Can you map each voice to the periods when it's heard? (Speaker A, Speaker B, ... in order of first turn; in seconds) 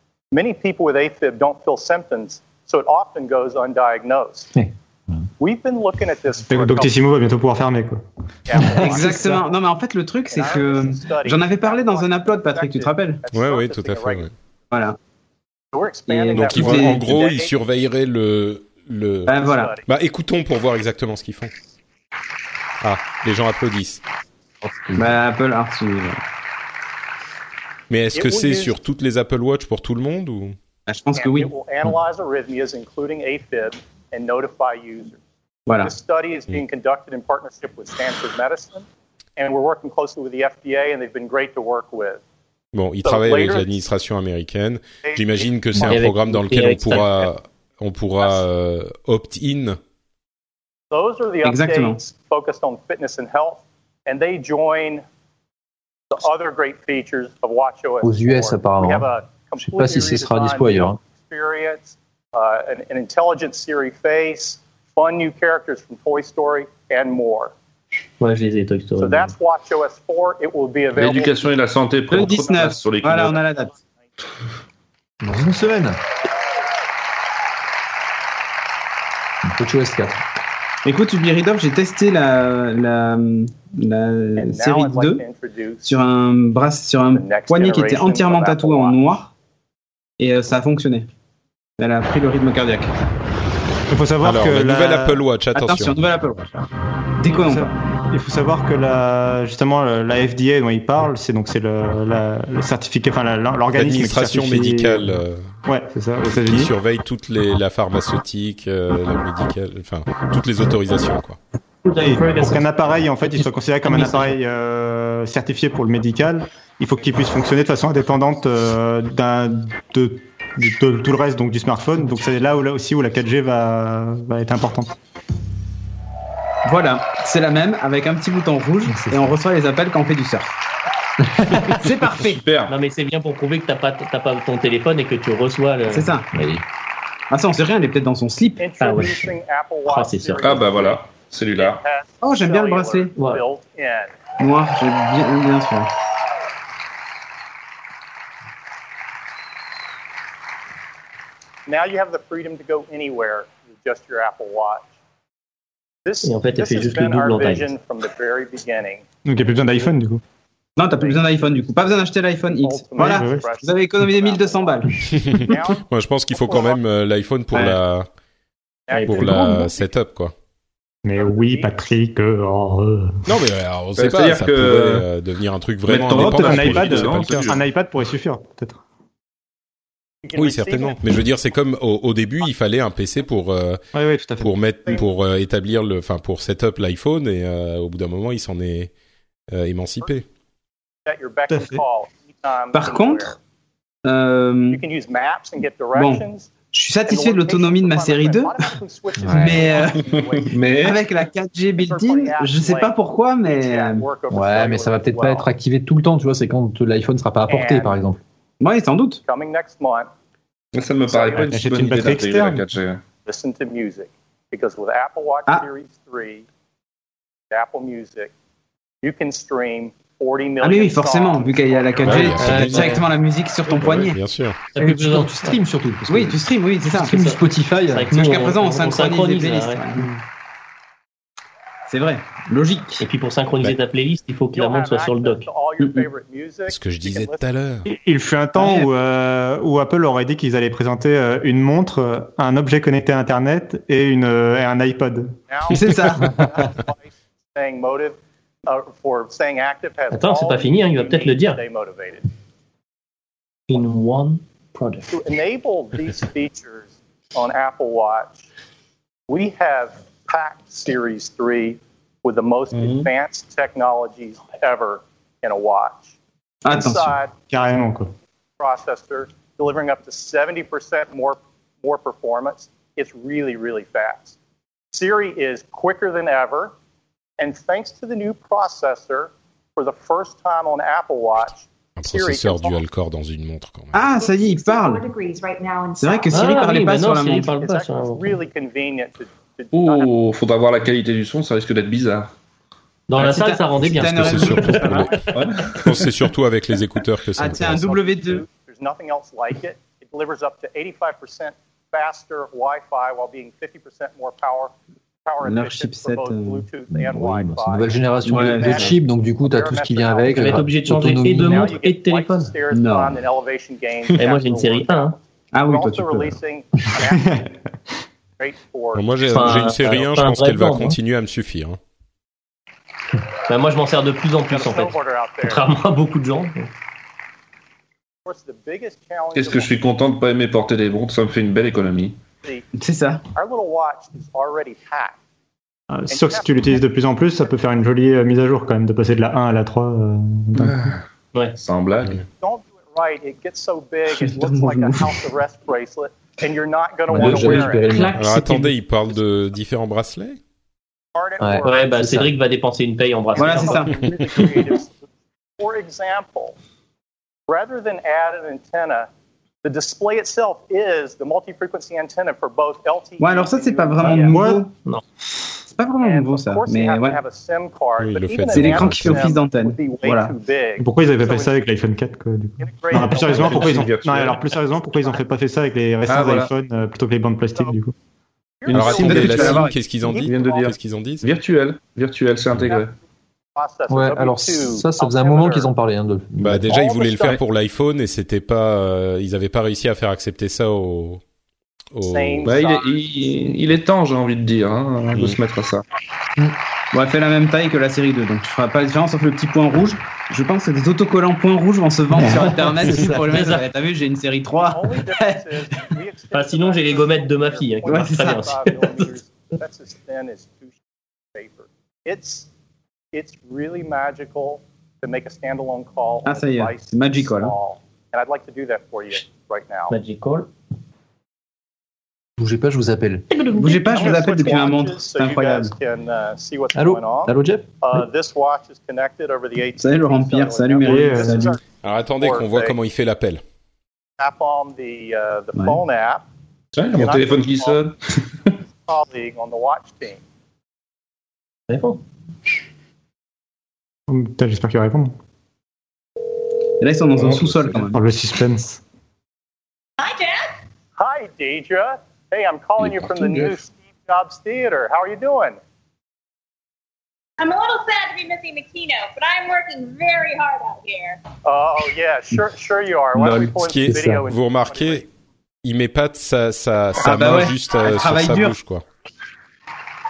Speaker A: 0.3-4.5, 5.4-7.0, 8.5-9.5, 10.3-14.3, 15.7-17.6, 19.4-19.9, 28.1-28.8, 31.1-35.2, 35.8-38.9, 39.4-42.2, 43.0-43.8, 45.0-45.5, 50.9-55.0, 56.1-67.5, 69.0-71.5, 84.4-85.9, 87.1-89.0, 138.6-141.0, 141.6-144.1, 151.7-154.9, 156.1-159.0, 160.9-161.3, 162.6-166.8, 168.9-169.9, 171.2-171.7, 180.2-181.0, 191.1-193.4, 194.7-196.5, 197.1-200.6, 201.8-202.9, 203.5-205.5, 207.5-208.0, 209.2-210.1, 211.1-211.5, 213.3-216.5, 217.5-218.3, 219.0-222.6, 234.5-237.4, 245.5-252.2, 255.1-258.5, 259.3-266.1, 266.7-267.3, 268.6-274.4, 274.9-276.7, 277.4-282.8, 287.4-290.1, 297.7-304.7, 305.3-310.7, 311.3-317.5, 318.4-319.5, 324.5-325.6, 328.3-329.7, 333.3-335.2, 336.1-336.7, 342.4-348.1, 351.1-352.1, 353.3-355.0, 355.6-356.6, 357.5-359.1, 359.6-364.4, 366.0-371.6, 372.6-373.9, 374.9-375.2, 378.6-380.8, 383.6-385.7, 386.7-387.4, 392.0-392.9, 404.5-410.7, 411.4-412.5, 413.1-419.9, 423.9-431.6, 432.2-432.8, 434.2-436.2, 436.9-437.8, 438.9-440.2, 451.0-455.6, 461.4-465.1
Speaker B: 6.5-8.0, 93.9-95.2, 97.3-106.7, 112.0-125.0, 159.2-160.2, 163.0-163.4, 171.0-173.2, 176.1-178.8, 183.9-184.5, 191.5-191.8, 211.4-212.6, 237.9-245.3, 267.5-268.1, 317.0-317.5, 335.9-340.9, 364.1-364.6, 370.8-377.9, 430.8-431.5, 444.1-445.1, 447.9-448.8
Speaker C: 8.5-9.2, 24.8-25.1, 58.0-61.0, 75.2-76.0, 79.6-80.2, 128.9-129.3, 131.4-131.7, 136.3-136.6, 199.2-199.6, 204.3-208.2, 224.8-228.1, 306.9-311.7, 347.1-348.7, 351.4-352.3, 383.9-386.8, 422.4-423.3, 426.7-428.0, 463.8-464.2
Speaker D: 8.8-13.2, 14.7-15.0, 16.1-17.2, 19.3-19.7, 25.0-26.2, 30.9-31.5, 35.7-35.9, 51.4-52.0, 72.1-73.7, 80.8-85.2, 85.8-89.3, 90.2-91.1, 91.8-92.9, 95.5-96.7, 97.2-97.8, 126.7-130.5, 131.7-132.4, 135.9-136.3, 137.3-138.6, 142.2-143.1, 144.4-145.9, 160.8-165.0, 167.5-167.8, 192.7-193.3, 194.1-194.8, 195.9-198.7, 199.3-200.1, 200.8-204.0, 208.6-209.2, 220.6-224.2, 226.1-227.1, 228.1-230.1, 231.9-233.0, 238.6-238.9, 245.7-246.5, 266.6-267.2, 283.9-285.1, 286.0-287.5, 293.1-295.1, 297.4-298.4, 305.4-306.6, 308.2-309.0, 312.7-313.2, 315.5-316.4, 332.8-333.2, 344.1-345.2, 347.2-348.4, 353.4-353.9, 363.2-364.7, 365.7-367.2, 368.5-370.4, 378.8-379.8, 396.9-405.4, 407.9-408.4, 416.2-417.5, 423.6-425.7, 429.8-431.6, 435.6-435.8, 446.8-448.0, 463.2-463.5, 467.0-468.6
Speaker E: 13.3-14.3, 16.3-21.5, 22.8-24.0, 27.9-30.6, 42.7-49.8, 94.2-96.0, 103.7-105.5, 106.3-111.4, 165.0-168.1, 169.0-170.3, 173.3-177.5, 180.3-183.8, 184.4-188.9, 189.5-190.2, 222.0-223.0, 223.7-224.7, 236.7-237.9, 282.0-284.0, 294.0-295.3, 295.8-297.9, 318.9-321.8, 348.1-350.4, 368.0-369.3, 378.7-381.3, 386.4-391.2, 391.9-392.6, 431.8-433.4, 463.5-465.0, 465.6-468.9
Speaker F: 45.8-47.3, 68.2-69.3, 111.8-114.3, 132.7-136.1, 138.8-139.3, 139.9-140.8, 143.2-143.4, 156.2-157.7, 168.9-169.4, 222.4-223.1, 224.8-225.6, 227.1-229.9, 233.0-235.5, 250.1-251.6, 253.7-255.1, 286.3-288.4, 293.1-295.5, 310.3-312.5, 314.2-315.1, 319.3-321.0, 323.5-326.7, 351.6-353.9, 402.2-403.7, 406.3-409.1, 419.9-420.5, 423.4-424.1, 441.7-442.0
Speaker G: 70.9-73.5, 132.2-132.7, 140.4-141.8, 174.0-175.1, 175.9-177.6, 200.2-201.0, 210.7-213.0, 262.8-263.1, 289.7-292.3, 295.3-295.9, 329.3-332.2, 340.6-341.0, 341.6-342.2, 373.1-374.5, 376.1-376.5, 379.1-379.4, 380.2-382.9, 392.4-395.8, 436.7-438.0, 447.2-447.8
Speaker H: 284.1-286.4, 450.0-450.6, 457.4-461.2